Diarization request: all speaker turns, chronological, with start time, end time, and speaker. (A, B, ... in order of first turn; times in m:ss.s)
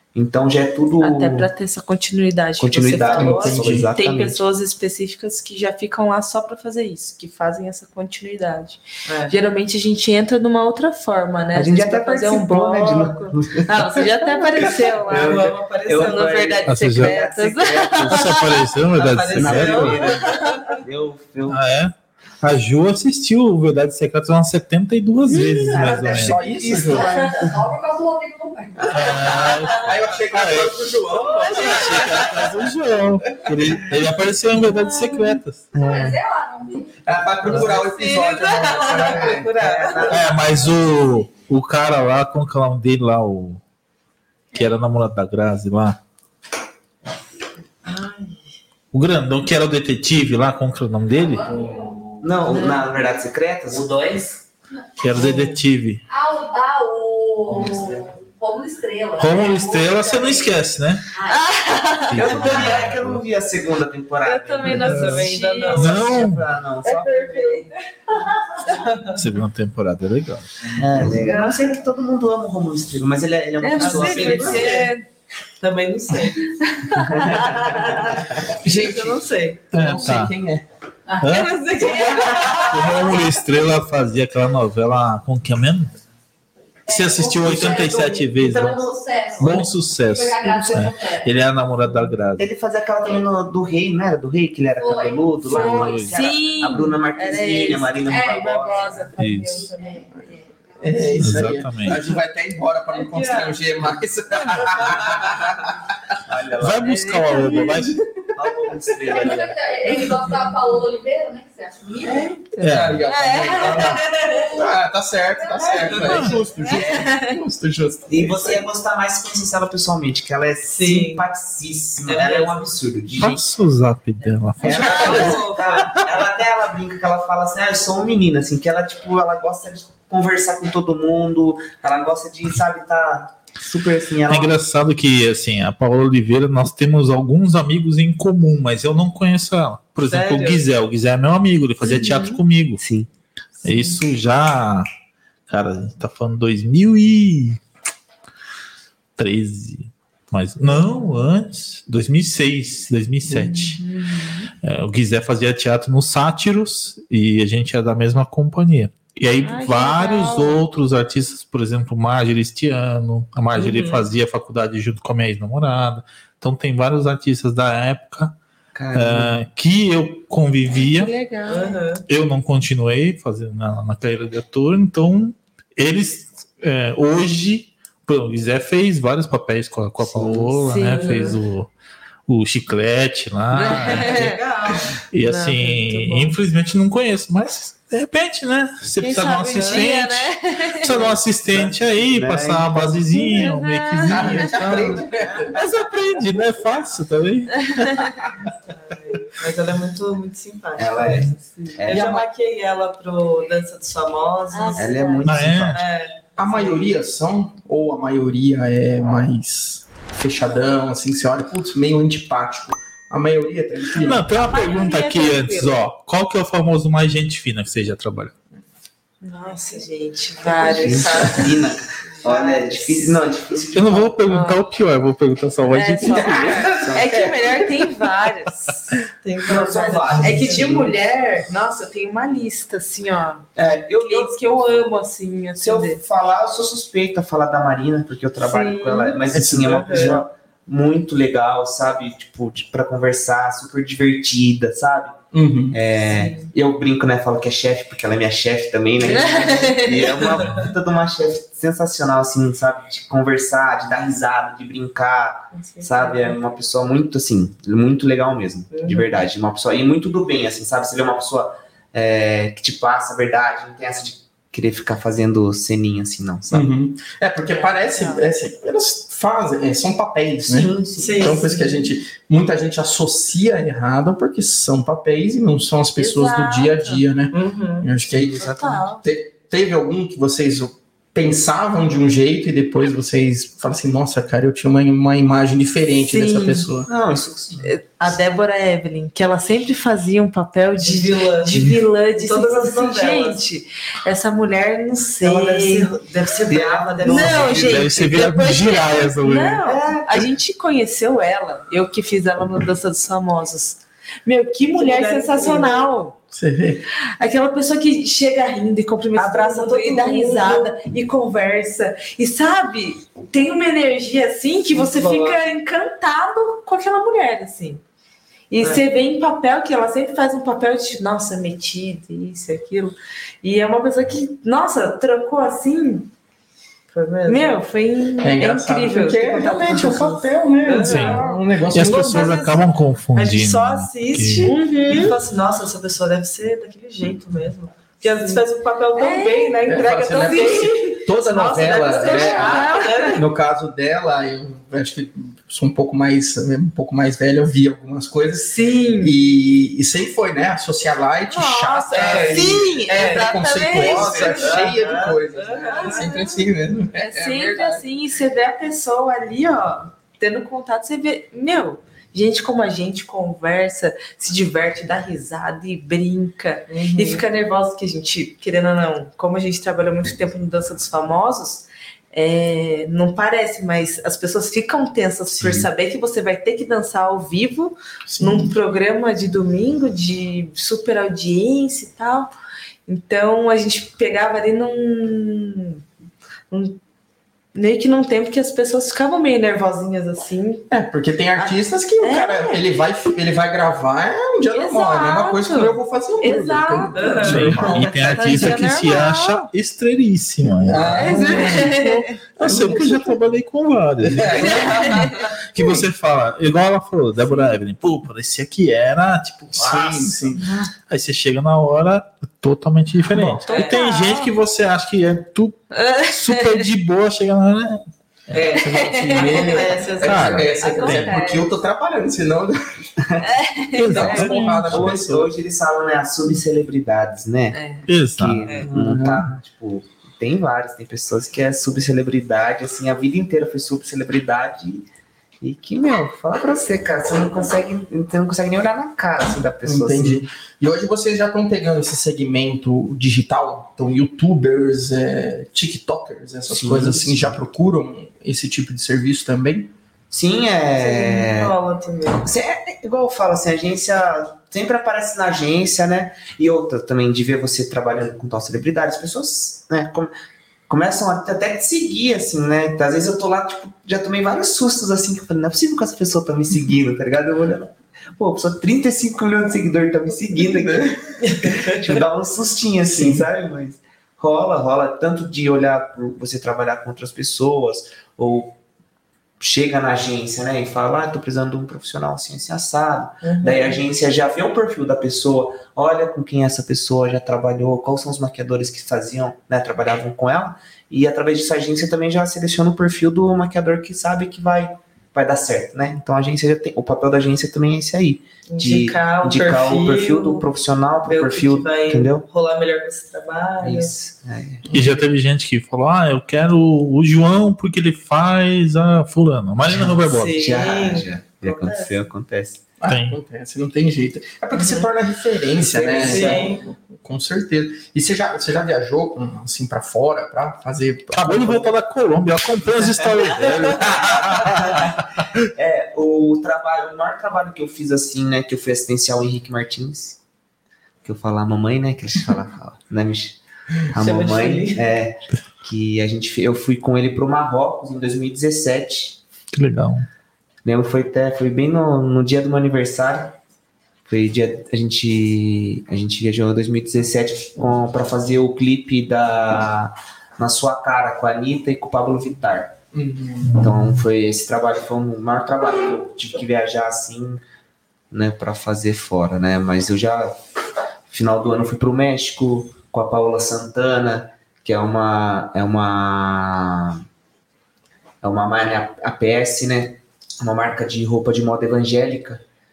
0:00.1-0:01.5 A
0:01.0-0:18.6 B
0:02.6-0:04.4 A
0:03.1-0:03.9 C
0:09.0-0:09.4 D
0:11.5-0:18.4 A
0:15.1-0:16.6 D
0:16.6-0:17.2 E
0:18.0-0:20.1 E
0:18.9-0:20.8 D
0:19.4-0:21.6 A
0:21.5-0:26.4 E
0:25.5-0:27.7 A
0:26.0-0:27.1 C
0:26.6-0:29.4 F
0:28.8-0:29.7 A
0:28.9-0:36.1 E
0:29.3-0:32.5 C
0:33.4-0:33.7 C
0:34.8-0:35.3 B
0:35.7-0:37.2 F
0:37.0-0:39.5 C
0:37.8-0:40.3 D
0:38.8-0:41.3 A
0:40.1-0:43.6 E
0:44.5-0:46.0 E
0:47.8-0:48.4 D
0:48.9-0:51.4 E
0:51.2-0:52.8 F
0:52.2-0:54.4 A
0:52.5-0:52.8 B
0:55.0-0:56.0 E
0:55.2-0:55.6 D
0:56.1-1:02.6 F
0:59.2-1:01.0 E
1:01.3-1:02.7 B
1:02.0-1:03.2 E
1:02.1-1:05.0 A
1:04.2-1:06.0 B
1:04.6-1:06.4 E
1:04.8-1:06.2 D
1:05.7-1:07.6 A
1:06.8-1:07.6 B
1:08.2-1:08.7 F
1:08.7-1:09.2 D
1:09.1-1:11.1 E
1:10.8-1:14.9 A
1:11.0-1:11.8 B
1:13.6-1:15.0 B
1:13.7-1:14.9 D
1:15.6-1:16.5 D
1:16.6-1:18.1 B
1:16.9-1:18.6 A
1:18.5-1:20.6 C
1:18.6-1:19.6 D
1:19.8-1:20.3 E
1:21.1-1:23.8 F
1:21.2-1:21.6 E
1:21.3-1:23.0 D
1:22.6-1:25.9 E
1:26.9-1:28.8 E
1:26.9-1:31.3 F
1:27.2-1:29.7 A
1:29.4-1:32.5 E
1:32.4-1:39.1 A
1:34.8-1:36.8 F
1:35.4-1:36.3 E
1:36.1-1:40.0 B
1:38.0-1:39.0 F
1:39.2-1:39.6 E
1:39.6-1:41.4 F
1:40.8-1:46.1 C
1:41.2-1:42.0 E
1:43.2-1:43.5 D
1:45.0-1:45.3 D
1:46.2-1:47.5 A
1:46.6-1:47.9 E
1:46.9-1:47.7 B
1:48.3-1:49.7 A
1:49.0-1:52.4 F
1:49.1-1:49.5 E
1:52.6-1:54.0 B
1:52.6-1:53.0 E
1:52.6-1:58.6 C
1:55.9-1:56.3 D
1:56.0-1:56.4 E
1:56.7-1:57.4 B
1:58.1-2:03.4 A
2:00.7-2:01.2 D
2:02.0-2:02.7 D
2:03.2-2:05.3 E
2:04.6-2:05.4 C
2:04.6-2:14.6 A
2:04.6-2:06.0 D
2:14.3-2:22.8 E
2:20.0-2:20.6 D
2:21.8-2:22.4 B
2:22.8-2:23.1 A
2:23.6-2:24.9 E
2:23.6-2:24.0 B
2:25.5-2:27.6 E
2:29.2-2:33.8 E
2:30.7-2:31.2 B
2:33.2-2:33.6 C
2:33.7-2:34.5 B
2:34.6-2:48.4 E
2:39.4-2:40.6 B
2:43.5-2:44.1 D
2:48.7-2:49.4 A
2:48.9-2:51.1 E
2:50.7-2:51.9 B
2:51.5-2:52.0 D
2:52.1-3:01.7 E
3:00.0-3:00.9 A
3:00.6-3:01.4 B
3:02.3-3:04.3 E
3:03.5-3:04.4 B
3:03.7-3:05.0 D
3:05.1-3:17.8 E
3:05.2-3:06.3 B
3:09.0-3:11.2 B
3:09.5-3:09.8 D
3:11.5-3:13.5 A
3:13.2-3:14.2 B
3:14.0-3:15.6 C
3:14.6-3:15.5 A
3:17.7-3:18.1 B
3:18.7-3:21.0 D
3:20.8-3:22.2 A
3:21.0-3:21.3 E
3:21.8-3:25.0 D
3:24.5-3:25.2 B
3:24.8-3:25.8 A
3:25.2-3:25.8 E
3:25.7-3:26.3 D
3:26.4-3:34.5 C
3:33.9-3:38.3 E
3:34.3-3:35.8 B
3:39.2-3:41.6 B
3:39.6-3:39.8 D
3:40.4-3:41.5 D
3:40.8-3:44.2 A
3:42.1-3:43.2 B
3:43.7-3:46.7 E
3:44.3-3:44.6 B
3:45.7-3:48.9 B
3:46.0-3:47.9 C
3:46.7-3:47.3 A
3:49.2-3:50.8 D
3:49.4-3:51.3 A
3:50.1-3:53.5 B
3:53.6-3:54.8 A
3:54.0-3:56.0 B
3:55.6-4:05.2 A
3:58.4-3:59.2 B
3:59.3-4:00.2 C
3:59.6-4:00.2 D
4:05.3-4:05.8 C
4:05.7-4:26.7 A
4:06.1-4:06.5 B
4:09.0-4:10.1 B
4:09.9-4:10.7 D
4:15.5-4:16.4 D
4:18.7-4:19.2 D
4:26.5-4:46.9 C
4:27.4-4:28.2 B
4:30.4-4:31.5 A
4:31.0-4:31.9 D
4:36.0-4:37.0 B
4:37.3-4:37.9 D
4:38.1-4:38.9 A
4:38.4-4:39.0 B
4:46.0-4:46.7 B
4:46.9-4:47.7 A
4:47.6-4:55.9 B
4:50.8-4:53.4 D
4:55.2-4:58.2 D
4:55.2-4:55.8 A
4:56.4-4:58.0 A
4:57.0-5:06.2 B
4:57.5-4:59.6 E
4:59.6-5:00.3 A
5:04.7-5:05.9 D
5:06.3-5:06.9 C
5:07.2-5:17.8 B
5:09.1-5:10.7 D
5:14.7-5:15.4 D
5:18.5-5:26.1 B
5:26.9-5:27.6 D
5:27.2-5:30.2 B
5:28.2-5:32.3 C
5:29.2-5:43.2 D
5:30.8-5:34.5 E
5:30.9-5:31.4 B
5:34.4-5:35.2 B
5:38.2-5:38.4 B
5:38.9-5:41.0 B
5:39.6-5:57.8 C
5:41.9-5:43.2 B
5:48.3-5:49.1 B
5:51.3-5:54.7 B
5:51.9-5:56.2 D
5:53.8-5:55.0 A
5:55.6-5:56.4 B
5:57.0-6:22.3 B
6:06.7-6:07.2 D
6:15.4-6:15.6 E
6:18.1-6:18.6 C
6:22.9-6:25.8 B
6:26.5-6:26.8 B
6:27.5-6:30.7 B
6:30.7-6:38.7 C
6:31.4-6:32.6 B
6:34.5-6:37.4 B
6:36.9-6:37.7 D
6:37.2-6:50.2 E
6:38.1-6:39.4 B
6:40.4-6:41.7 C
6:40.9-6:42.2 B
6:42.4-6:43.2 C
6:44.0-6:45.0 C
6:44.4-6:45.8 B
6:44.5-6:45.1 D
6:47.3-6:47.6 B
6:49.5-6:50.5 C
6:49.6-6:50.1 A
6:50.4-6:50.7 B
6:50.9-6:58.5 E
6:53.1-6:53.4 C
6:53.4-6:53.8 D
6:53.5-6:54.3 B
6:55.7-6:56.7 B
6:58.3-7:01.0 D
6:58.5-7:02.9 C
6:58.7-7:01.5 B
7:00.0-7:01.2 E
7:03.2-7:04.7 B
7:03.7-7:05.2 E
7:03.9-7:05.3 C
7:03.9-7:07.6 A
7:07.5-7:07.9 B
7:07.9-7:08.4 E
7:08.1-7:14.9 A
7:08.4-7:08.7 D
7:08.6-7:09.3 C
7:15.4-7:20.3 A
7:19.6-7:29.7 C
7:26.5-7:27.4 A
7:30.1-7:31.6 A
7:30.8-7:32.3 D
7:32.2-7:40.1 A
7:40.7-7:51.0 A
7:50.4-7:51.0 C
7:51.2-7:51.8 D
7:51.6-7:58.6 A
7:52.9-7:53.3 C
7:59.4-8:22.2 A
8:03.2-8:03.8 D
8:18.4-8:20.4 D
8:21.0-8:23.9 D
8:23.6-8:24.6 A
8:24.6-8:25.0 C
8:24.7-8:30.4 E
8:30.0-8:32.0 D
8:30.3-8:32.6 A
8:32.8-8:41.7 C
8:32.9-8:33.2 E
8:35.7-8:36.5 A
8:36.0-8:36.6 D
8:41.1-8:45.0 E
8:42.8-8:44.9 A
8:45.5-8:50.2 A
8:51.0-8:59.2 A
8:53.9-8:54.9 D
8:59.5-9:00.1 E
9:00.6-9:03.4 A
9:04.0-9:12.8 A
9:12.9-9:13.6 C
9:13.4-9:14.0 E
9:13.6-9:17.4 A
9:18.1-9:20.4 A
9:21.1-9:27.0 A
9:28.2-9:32.4 A